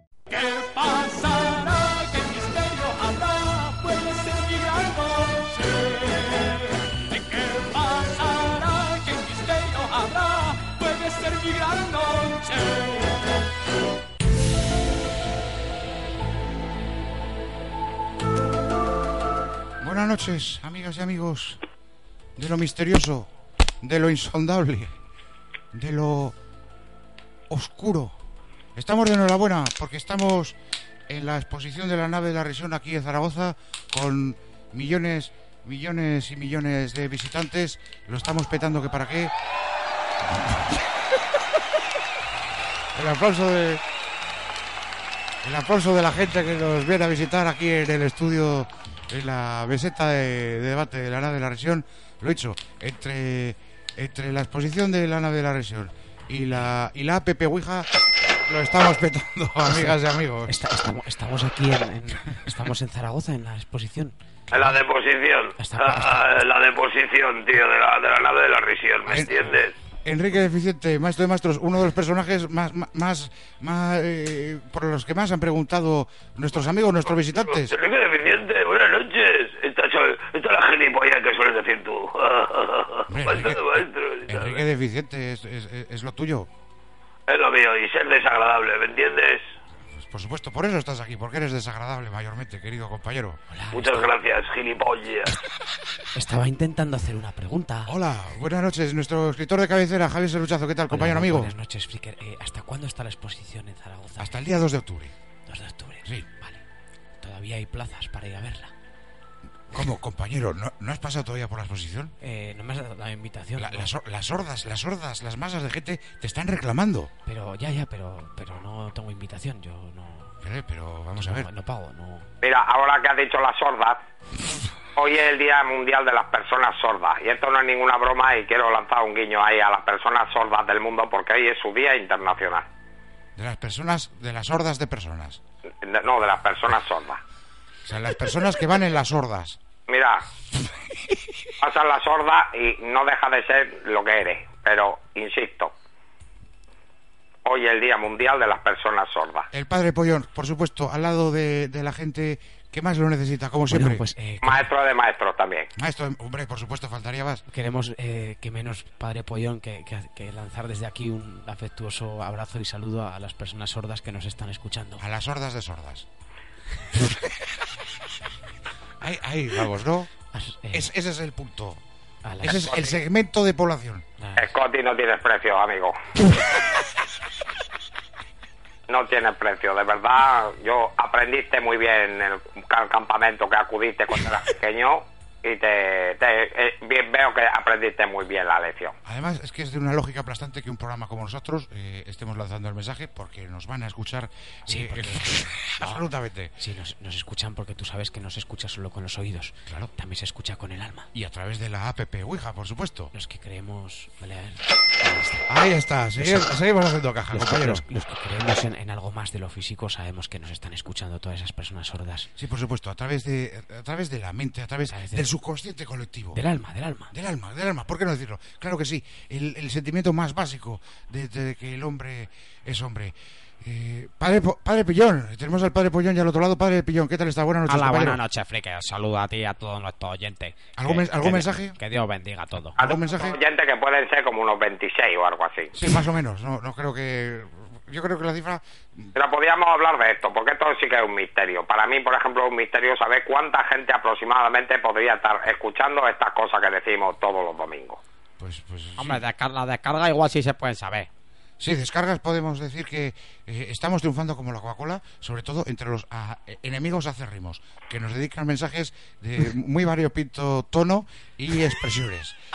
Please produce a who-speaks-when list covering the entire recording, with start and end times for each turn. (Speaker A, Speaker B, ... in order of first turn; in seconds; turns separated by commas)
Speaker A: 0.3-13.2, Speaker B: 19.8-21.6, Speaker B: 22.4-23.3, Speaker B: 23.8-24.9, Speaker B: 25.7-26.4, Speaker B: 27.5-28.1, Speaker B: 28.8-30.6, Speaker B: 31.1-39.3, Speaker B: 40.2-41.2, Speaker B: 42.9-43.8, Speaker B: 45.4-57.9, Speaker B: 58.5-60.5, Speaker C: 59.7-64.1, Speaker D: 64.5-69.7, Speaker B: 64.5-64.8, Speaker C: 65.6-66.3, Speaker B: 69.1-69.4, Speaker B: 70.0-77.7, Speaker D: 77.5-84.6, Speaker B: 83.1-86.5, Speaker D: 87.3-89.5, Speaker B: 90.0-93.4, Speaker C: 93.5-94.1, Speaker D: 93.7-95.4, Speaker C: 96.1-97.9, Speaker B: 97.9-101.5, Speaker C: 100.9-104.3, Speaker B: 104.2-105.1, Speaker C: 105.5-106.6, Speaker C: 107.2-108.7, Speaker B: 109.7-112.1, Speaker C: 112.2-113.9, Speaker B: 113.6-117.1, Speaker C: 117.2-120.4, Speaker B: 120.4-121.5, Speaker C: 121.2-122.3, Speaker E: 122.4-124.0, Speaker E: 125.0-132.7, Speaker B: 133.3-135.4, Speaker E: 135.8-137.2, Speaker B: 137.8-139.6, Speaker E: 139.9-140.2, Speaker E: 141.6-145.7, Speaker E: 147.4-149.5, Speaker B: 149.5-154.1, Speaker C: 153.7-154.7, Speaker E: 154.4-155.7, Speaker B: 155.8-157.4, Speaker C: 157.5-165.0, Speaker B: 165.0-166.1, Speaker B: 166.9-167.8, Speaker B: 169.0-170.1, Speaker C: 170.3-170.9, Speaker B: 170.7-171.8, Speaker C: 172.2-172.7, Speaker B: 172.4-174.0, Speaker E: 172.5-173.0, Speaker C: 174.2-174.5, Speaker E: 174.3-175.9, Speaker E: 178.9-189.0, Speaker B: 189.0-196.5, Speaker C: 194.7-196.0, Speaker C: 196.6-201.1, Speaker B: 199.7-199.9, Speaker B: 201.1-203.1, Speaker C: 203.1-205.5, Speaker B: 205.5-207.8, Speaker C: 206.2-206.5, Speaker C: 207.3-212.3, Speaker B: 212.4-216.4, Speaker C: 214.9-215.3, Speaker C: 216.3-217.1, Speaker B: 217.1-228.2, Speaker F: 227.7-232.8, Speaker B: 230.8-231.8, Speaker B: 232.8-233.4, Speaker E: 232.8-235.7, Speaker B: 235.7-239.1, Speaker E: 239.1-248.0, Speaker B: 248.4-249.2, Speaker F: 249.0-251.1, Speaker B: 251.6-262.4